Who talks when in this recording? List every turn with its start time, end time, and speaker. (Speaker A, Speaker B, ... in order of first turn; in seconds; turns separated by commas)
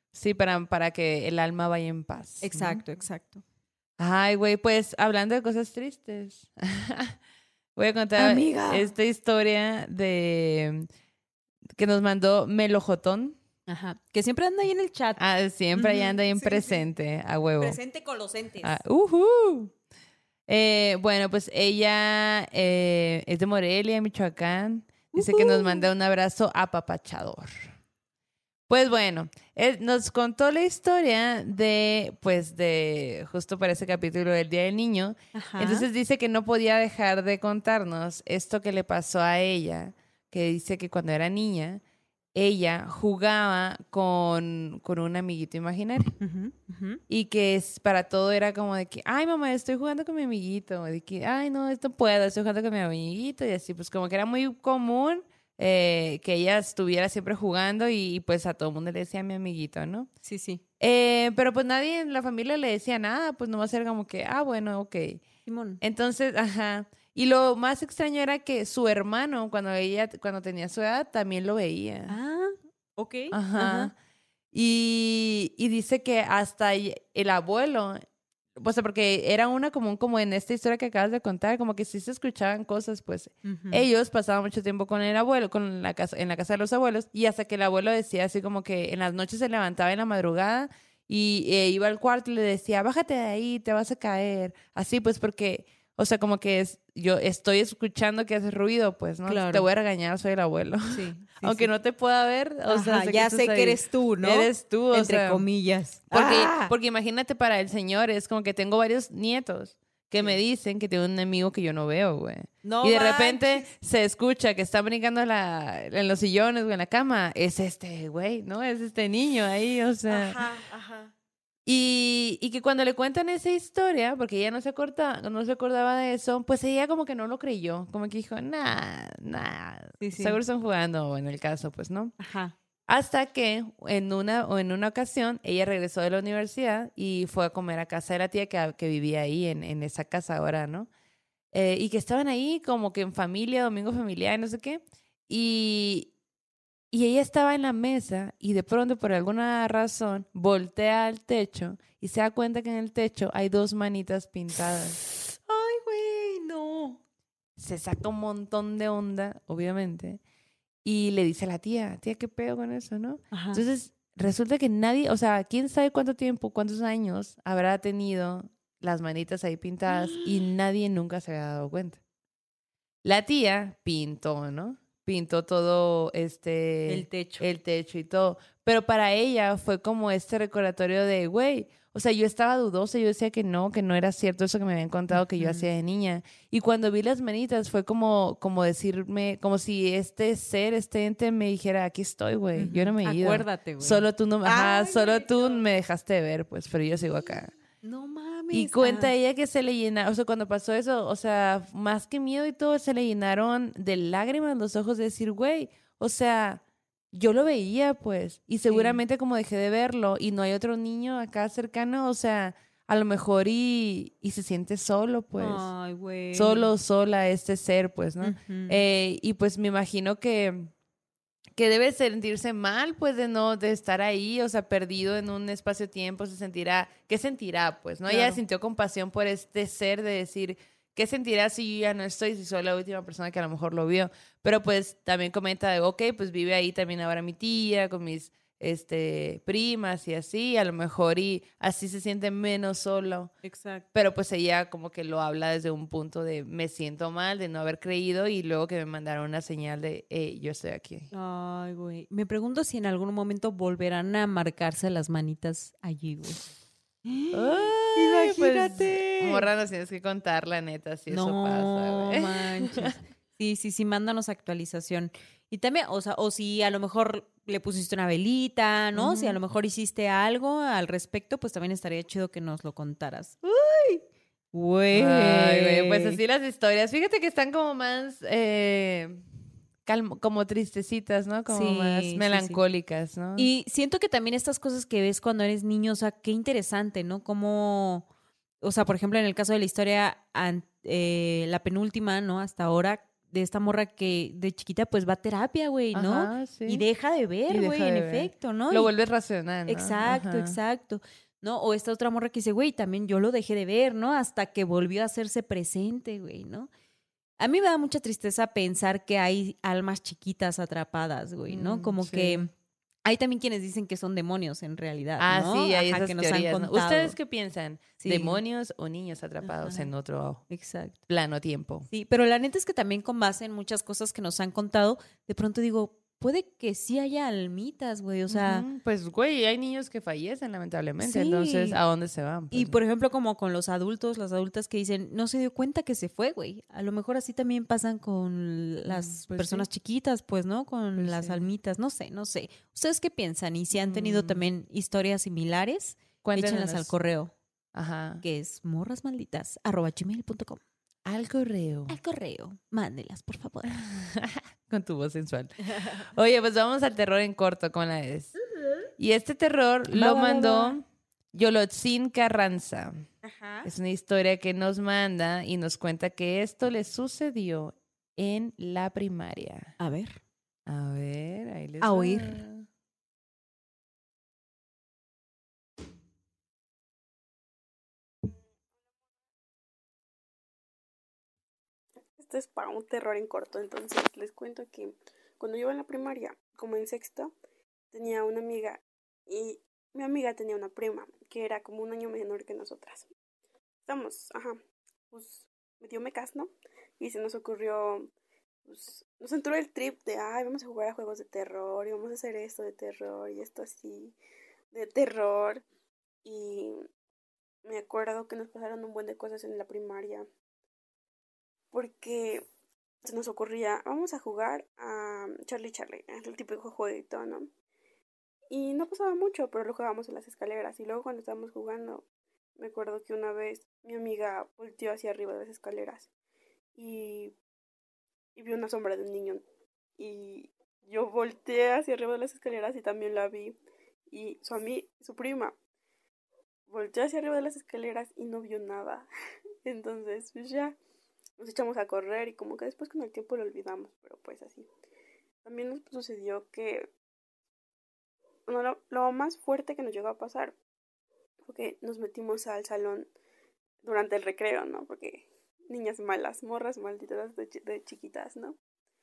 Speaker A: 0.1-2.8, Speaker B: 2.4-3.4, Speaker A: 4.0-7.2, Speaker A: 7.8-10.9, Speaker B: 8.2-8.9, Speaker A: 11.8-13.4, Speaker B: 13.7-15.2, Speaker A: 15.2-17.8, Speaker B: 15.7-16.9, Speaker B: 17.6-18.8, Speaker A: 18.6-19.7, Speaker A: 20.5-27.5, Speaker B: 25.1-25.9, Speaker A: 28.7-41.8, Speaker B: 35.3-35.9, Speaker A: 42.3-46.1, Speaker B: 46.2-47.0, Speaker A: 47.1-60.1, Speaker B: 60.2-60.6, Speaker A: 60.8-65.2, Speaker B: 65.5-65.8, Speaker A: 65.8-72.1, Speaker B: 72.1-73.9, Speaker A: 73.3-73.9, Speaker A: 74.5-78.0, Speaker A: 78.5-105.4, Speaker B: 83.4-83.8, Speaker B: 99.2-99.7, Speaker B: 100.9-101.7, Speaker B: 102.7-106.7, Speaker A: 106.1-120.4, Speaker B: 112.6-113.7, Speaker B: 120.1-121.1, Speaker A: 121.7-132.1, Speaker B: 130.0-130.4, Speaker B: 132.2-132.5, Speaker A: 132.9-140.9, Speaker A: 141.5-146.1, Speaker A: 146.9-155.0, Speaker B: 155.2-157.0, Speaker A: 157.6-160.2, Speaker A: 160.8-172.0, Speaker B: 163.3-163.6, Speaker B: 169.9-170.4, Speaker A: 173.0-197.5, Speaker B: 176.9-177.5, Speaker B: 185.3-185.7, Speaker B: 192.6-195.6, Speaker B: 197.8-199.1, Speaker A: 198.5-206.6, Speaker A: 207.1-215.7, Speaker B: 208.6-209.0, Speaker B: 215.3-216.7, Speaker A: 216.3-220.7, Speaker B: 218.2-218.8, Speaker A: 221.5-243.3, Speaker B: 228.1-228.4, Speaker B: 243.4-243.8, Speaker A: 243.9-251.1, Speaker B: 251.1-256.4, Speaker B: 257.0-259.5, Speaker A: 257.3-262.9, Speaker B: 261.1-276.2, Speaker A: 268.9-269.4, Speaker A: 274.9-279.2, Speaker A: 279.9-283.5, Speaker B: 281.5-282.6, Speaker B: 283.4-288.1, Speaker B: 288.6-298.9, Speaker A: 295.9-296.8, Speaker A: 297.5-300.6, Speaker B: 299.7-306.7, Speaker B: 307.4-312.5, Speaker A: 311.5-312.4, Speaker B: 313.0-317.1, Speaker A: 315.2-320.4, Speaker B: 318.0-318.4, Speaker B: 319.4-319.9, Speaker B: 320.5-321.0, Speaker A: 321.1-321.9, Speaker B: 321.9-328.6, Speaker A: 328.3-332.8, Speaker B: 331.0-331.8, Speaker B: 332.5-347.3, Speaker A: 338.9-339.6, Speaker A: 341.0-341.4, Speaker A: 343.7-344.4, Speaker A: 346.2-346.9, Speaker A: 347.7-348.2, Speaker B: 348.2-350.6, Speaker A: 351.1-351.9, Speaker B: 351.9-353.8, Speaker A: 353.7-358.4, Speaker A: 359.0-360.8, Speaker B: 359.9-360.8, Speaker A: 361.3-363.1, Speaker B: 363.2-363.7, Speaker A: 363.6-369.7, Speaker B: 369.8-370.2, Speaker A: 370.6-372.6, Speaker B: 371.8-372.4, Speaker C: 382.2-387.3, Speaker C: 387.9-393.1, Speaker C: 393.9-394.6, Speaker C: 395.1-398.1, Speaker C: 398.6-404.1, Speaker C: 404.7-405.6, Speaker C: 406.2-406.8, Speaker C: 407.6-410.3, Speaker C: 411.7-412.4, Speaker C: 413.0-417.5, Speaker C: 418.5-422.0, Speaker C: 422.6-426.1, Speaker C: 426.8-427.3, Speaker C: 428.4-429.4, Speaker C: 430.0-433.6, Speaker C: 434.1-435.6, Speaker C: 436.7-439.1, Speaker C: 439.6-440.8, Speaker C: 441.4-444.7, Speaker C: 445.4-446.9, Speaker C: 448.5-450.6, Speaker C: 451.4-453.1, Speaker C: 453.8-458.6